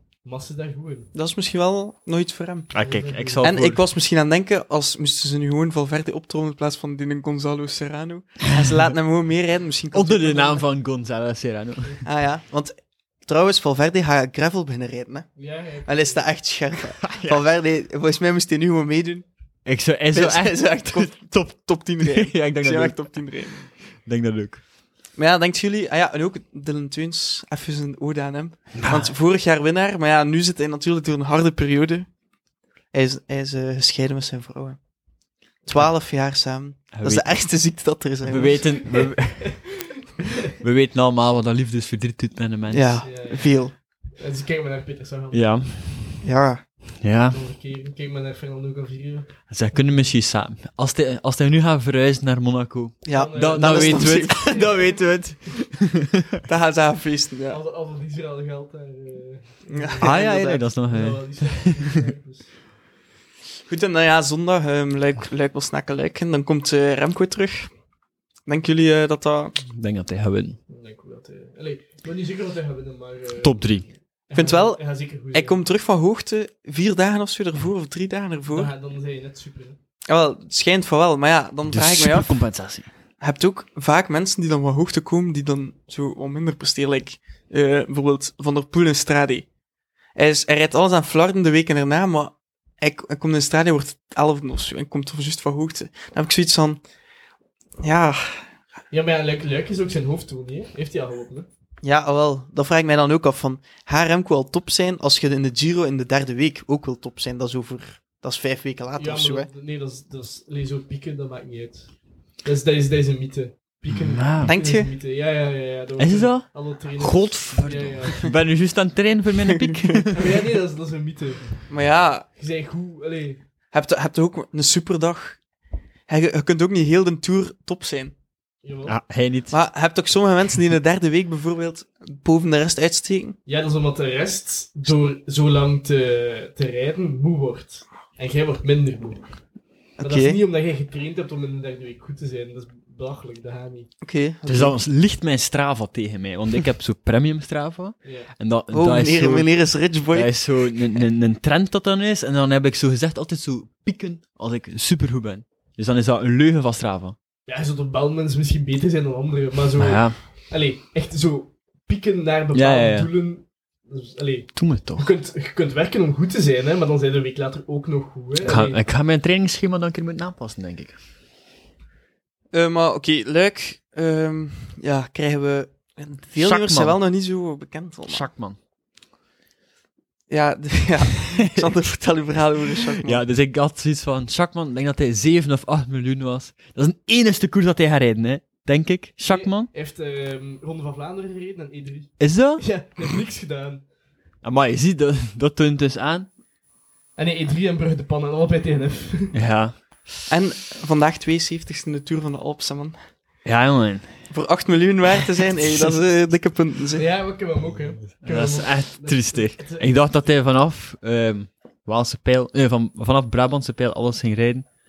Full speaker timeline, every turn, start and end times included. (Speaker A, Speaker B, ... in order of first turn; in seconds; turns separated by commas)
Speaker A: 0.2-1.1, Speaker B: 1.1-2.7, Speaker C: 2.7-3.8, Speaker A: 2.7-3.5, Speaker B: 3.4-10.7, Speaker C: 9.9-12.0, Speaker B: 12.0-19.2, Speaker A: 15.4-16.3, Speaker C: 17.0-17.4, Speaker C: 19.6-21.5, Speaker B: 20.1-23.7, Speaker C: 22.0-23.2, Speaker C: 23.9-24.6, Speaker B: 25.1-32.1, Speaker C: 28.7-29.1, Speaker B: 32.9-34.8, Speaker B: 35.6-38.7, Speaker C: 36.9-37.4, Speaker C: 38.2-39.7, Speaker A: 38.5-39.7, Speaker C: 40.5-43.0, Speaker B: 42.7-43.7, Speaker A: 43.0-45.6, Speaker C: 45.3-46.2, Speaker B: 46.2-46.6, Speaker C: 47.0-47.4, Speaker A: 47.3-49.8, Speaker C: 49.5-56.0, Speaker B: 53.0-54.7, Speaker A: 53.1-55.3, Speaker B: 56.5-57.6, Speaker A: 57.5-62.6, Speaker B: 59.7-60.6, Speaker C: 60.0-61.9, Speaker B: 63.7-67.7, Speaker B: 68.5-69.5, Speaker C: 69.6-70.6, Speaker A: 70.7-73.8, Speaker C: 73.4-73.9, Speaker A: 74.3-75.6, Speaker B: 74.3-78.7, Speaker A: 78.5-79.8, Speaker B: 80.1-82.4, Speaker C: 81.7-82.9, Speaker B: 83.2-89.5, Speaker B: 90.2-96.8, Speaker B: 97.8-98.4, Speaker A: 98.9-101.5, Speaker B: 101.8-109.5, Speaker A: 109.0-118.3, Speaker C: 113.9-114.5, Speaker B: 114.4-114.9, Speaker C: 116.0-120.2, Speaker B: 119.5-120.0, Speaker A: 120.1-121.7, Speaker B: 121.7-122.3, Speaker A: 122.4-123.4, Speaker B: 123.7-125.4, Speaker B: 126.1-128.1, Speaker A: 128.6-128.9, Speaker C: 128.8-129.5, Speaker B: 129.5-133.4, Speaker A: 133.5-139.4, Speaker A: 140.0-143.9, Speaker B: 140.0-140.4, Speaker B: 144.0-144.8, Speaker C: 144.4-149.5, Speaker A: 148.0-148.3, Speaker B: 148.7-150.3, Speaker C: 150.1-157.1, Speaker A: 157.4-168.8, Speaker C: 159.8-160.2, Speaker C: 162.5-163.1, Speaker C: 164.6-165.0, Speaker C: 168.4-171.0, Speaker B: 172.5-178.2, Speaker C: 176.4-177.0, Speaker C: 178.1-178.6, Speaker B: 180.3-183.2, Speaker C: 183.0-189.7, Speaker A: 189.3-193.8, Speaker C: 192.2-192.7, Speaker C: 194.4-196.3, Speaker A: 197.2-199.3, Speaker C: 199.3-199.8, Speaker B: 200.3-202.9, Speaker C: 203.4-204.3, Speaker B: 204.3-207.1, Speaker A: 206.9-210.0, Speaker C: 208.2-214.7